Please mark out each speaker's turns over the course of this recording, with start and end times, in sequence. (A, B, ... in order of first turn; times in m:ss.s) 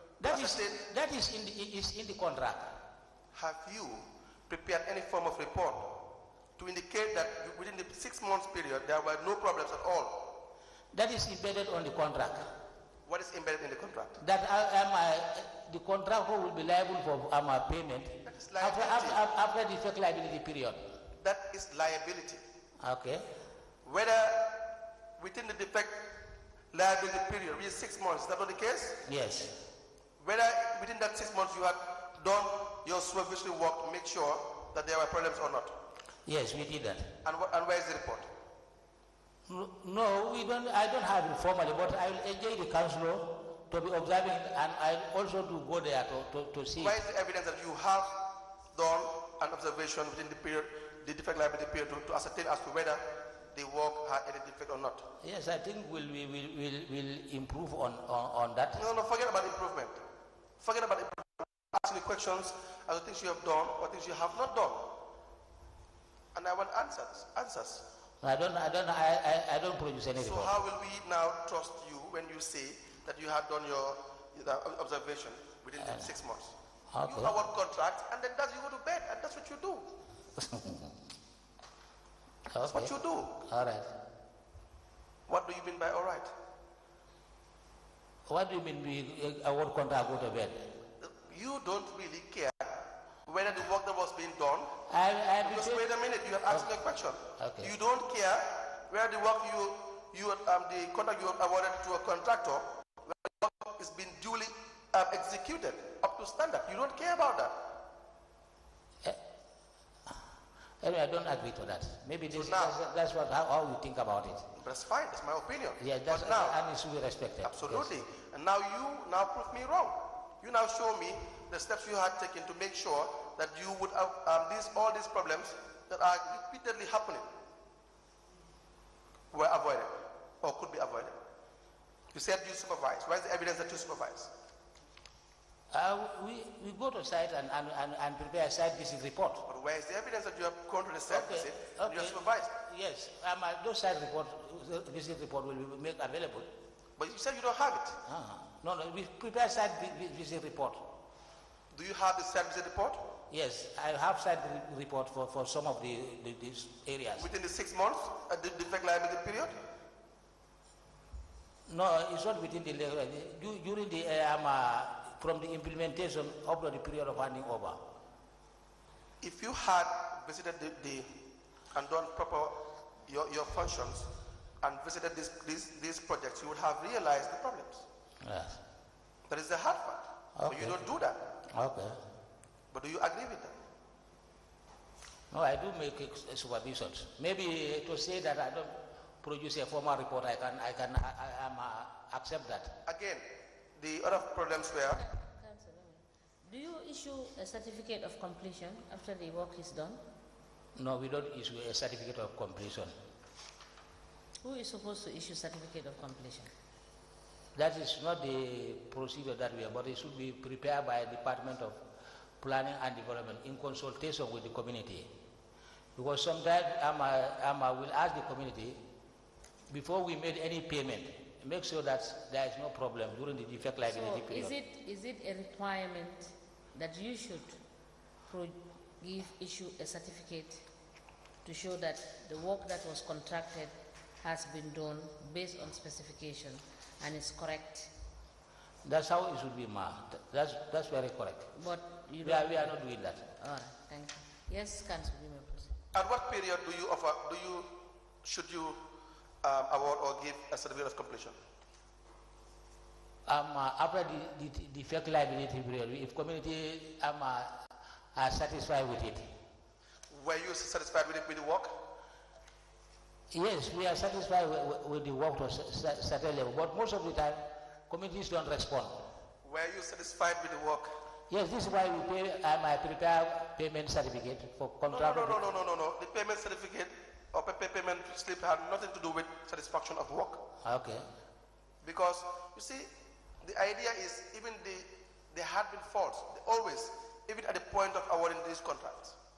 0:00.2-0:02.8 A
0:00.2-0:00.9 B
0:03.3-0:06.0 B
0:06.6-0:10.4 B
0:10.9-0:12.5 A
0:13.1-0:14.2 B
0:14.2-0:20.9 A
0:18.2-0:19.2 B
0:21.2-0:22.4 B
0:22.8-0:23.3 A
0:23.8-0:26.1 B
0:26.7-0:29.0 B
0:29.0-0:29.6 A
0:30.2-0:35.8 B
0:36.3-0:37.2 A
0:37.2-0:38.3 B
0:39.5-0:47.0 A
0:46.8-0:48.2 B
0:48.7-0:55.1 B
0:55.2-0:58.9 A
0:58.8-1:00.0 B
1:00.6-1:05.0 B
1:06.3-1:07.8 B
1:08.2-1:10.5 A
1:10.2-1:19.9 B
1:16.9-1:17.4 A
1:20.4-1:21.0 A
1:22.5-1:23.9 A
1:22.6-1:23.4 B
1:25.3-1:26.3 B
1:28.3-1:30.8 A
1:31.0-1:34.7 B
1:34.9-1:35.9 A
1:35.4-1:47.6 B
1:37.4-1:37.7 A
1:50.8-1:54.5 A
1:52.3-1:52.8 B
1:54.6-1:56.6 B
1:55.8-1:57.9 A
1:57.4-2:07.3 B
2:09.3-2:11.2 B
2:12.1-2:14.3 B
2:15.7-2:19.5 A
2:19.5-2:22.5 B
2:21.1-2:26.5 A
2:27.0-2:28.0 B
2:28.1-2:30.8 A
2:31.7-2:33.0 B
2:33.3-2:37.3 A
2:37.2-2:39.6 B
2:41.7-2:47.9 A
2:49.2-2:51.1 B
2:51.7-2:54.1 B
2:54.6-2:57.8 B
2:58.2-2:58.6 A
2:59.3-3:01.3 B
3:00.4-3:00.8 A
3:01.5-3:02.0 A
3:02.7-3:03.5 B
3:05.3-3:12.8 A
3:12.9-3:13.3 B
3:13.8-3:15.0 B
3:14.9-3:20.0 C
3:20.8-3:22.9 A
3:24.4-3:26.5 C
3:27.6-3:31.8 A
3:32.4-3:35.1 A
3:36.0-3:38.8 A
3:39.7-3:44.6 A
3:43.9-3:47.6 C
3:48.3-3:50.6 C
3:51.4-3:57.9 C
3:58.8-4:01.5 A
4:01.6-4:05.8 C
4:02.2-4:03.3 A
4:05.9-4:08.8 B
4:09.4-4:11.4 B
4:13.3-4:17.6 A
4:18.2-4:19.3 A
4:20.1-4:21.7 B
4:23.3-4:29.0 A
4:29.4-4:30.9 B
4:31.3-4:35.4 A
4:34.9-4:40.4 B
4:40.6-4:41.1 A
4:41.8-4:42.9 B
4:43.4-4:49.2 B